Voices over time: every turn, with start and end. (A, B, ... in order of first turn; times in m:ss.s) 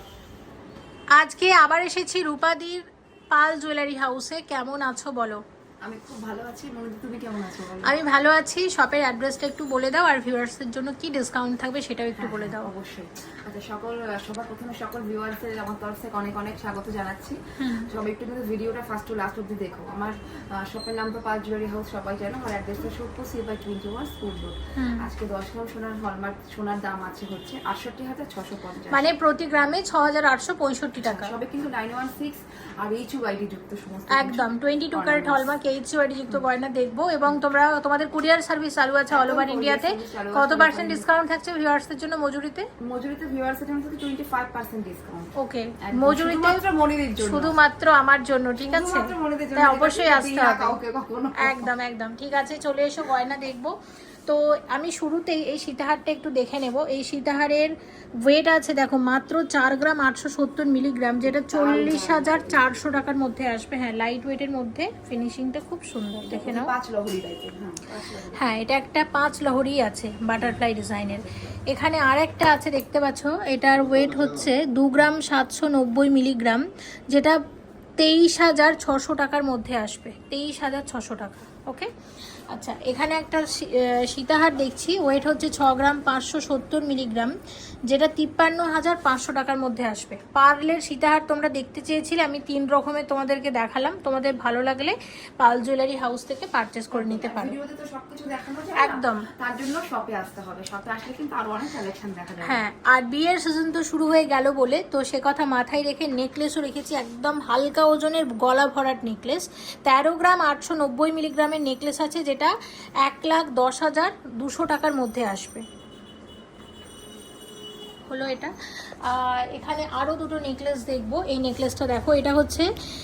0:01.2-0:05.4 A
0:05.8-0:08.0 B
0:07.8-0:12.7 A
0:12.2-0:29.1 B
0:17.6-0:17.9 A
0:24.8-0:25.1 A
0:28.9-0:31.3 A
0:31.0-0:35.5 B
0:34.1-0:42.7 A
0:39.1-0:41.0 B
0:42.9-0:45.3 B
0:45.4-0:46.6 A
0:45.8-0:47.6 B
0:47.2-0:50.8 A
0:48.6-0:51.7 B
0:51.4-1:06.7 A
1:01.4-1:02.7 B
1:06.2-1:08.6 B
1:08.3-1:17.4 A
1:10.4-1:11.5 B
1:18.0-1:21.9 A
1:22.5-1:27.3 A
1:27.9-1:37.6 A
1:36.9-1:42.6 B
1:38.8-1:39.3 A
1:42.4-1:55.6 A
1:58.1-2:02.7 A